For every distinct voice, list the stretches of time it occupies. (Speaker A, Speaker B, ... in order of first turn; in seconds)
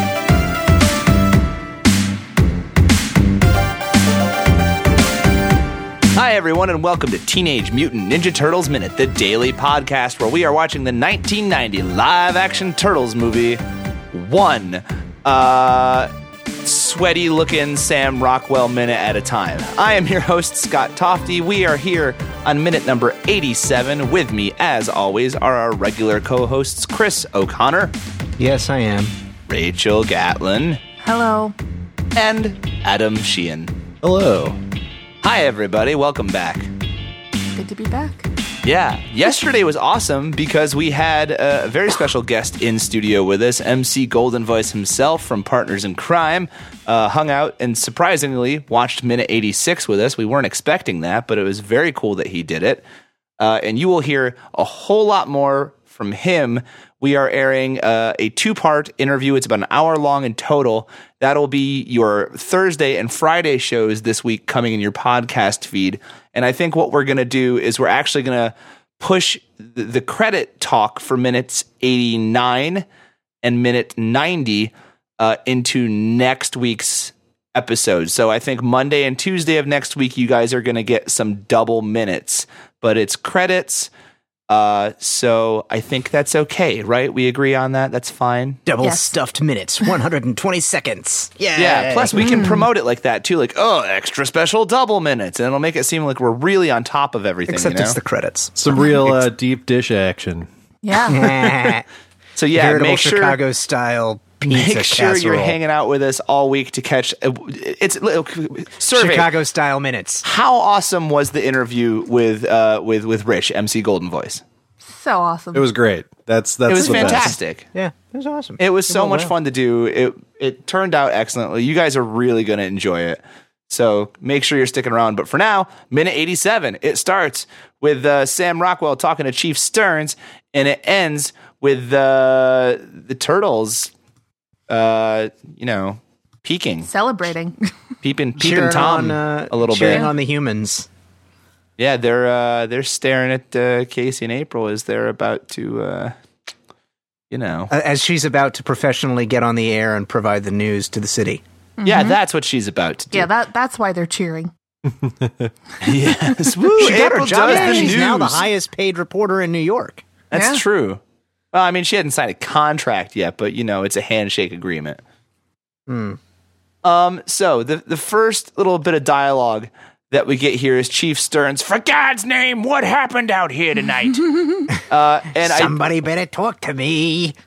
Speaker A: 6.1-16.1, 16.6-27.9, 29.5-30.8, 32.1-33.8, 35.2-36.7, 38.6-52.8, 53.4-72.8, 73.4-83.9, 84.5-88.6, 91.5-98.0, 102.3-103.4, 104.5-109.3, 110.2-114.4, 116.7-117.7, 118.6-133.9, 134.7-136.9, 138.0-140.1, 141.8-146.1, 147.3-147.7, 151.8-153.3, 155.8-158.4, 160.3-161.0, 161.5-165.0, 166.8-175.8
Speaker B: 28.4-29.1, 88.7-92.6, 97.5-99.2, 101.0-101.8, 102.5-105.6, 108.9-110.2, 116.7-119.3, 138.4-140.9, 147.7-151.4, 156.8-160.0, 165.9-166.2, 175.4-177.3
Speaker C: 31.0-31.5, 37.5-38.3, 88.8-89.2, 92.1-92.7, 100.8-101.5, 114.9-115.7, 136.8-137.7, 151.8-152.2, 153.1-154.5, 157.4-157.9, 160.3-160.6
Speaker D: 34.0-34.6, 98.5-100.5, 115.5-117.3, 155.0-155.5